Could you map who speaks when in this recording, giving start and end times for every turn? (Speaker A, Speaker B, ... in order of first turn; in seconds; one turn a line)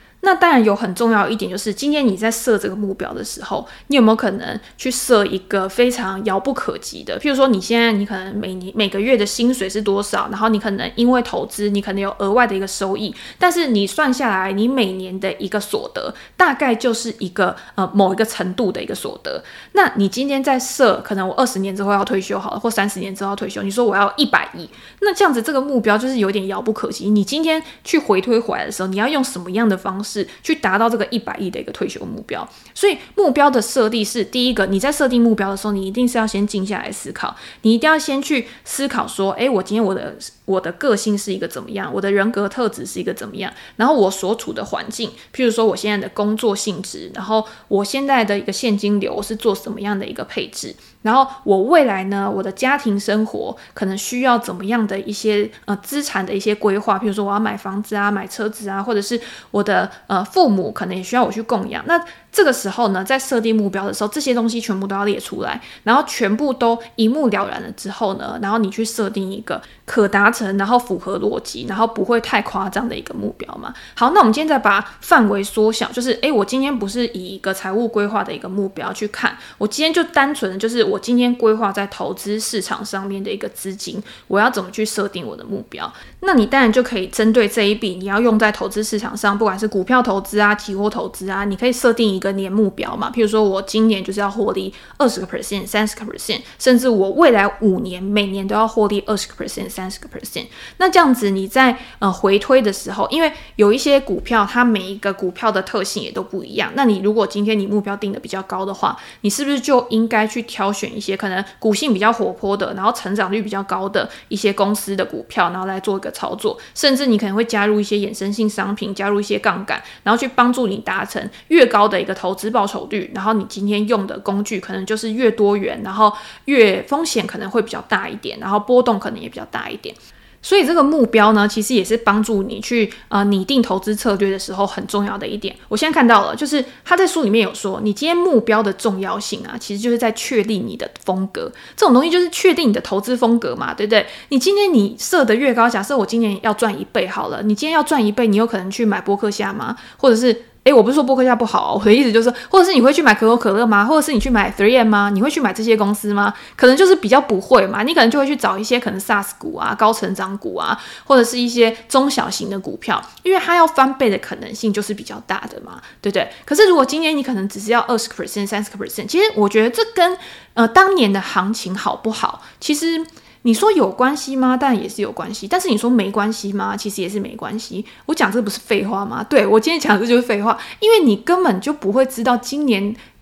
Speaker A: 0.2-183.0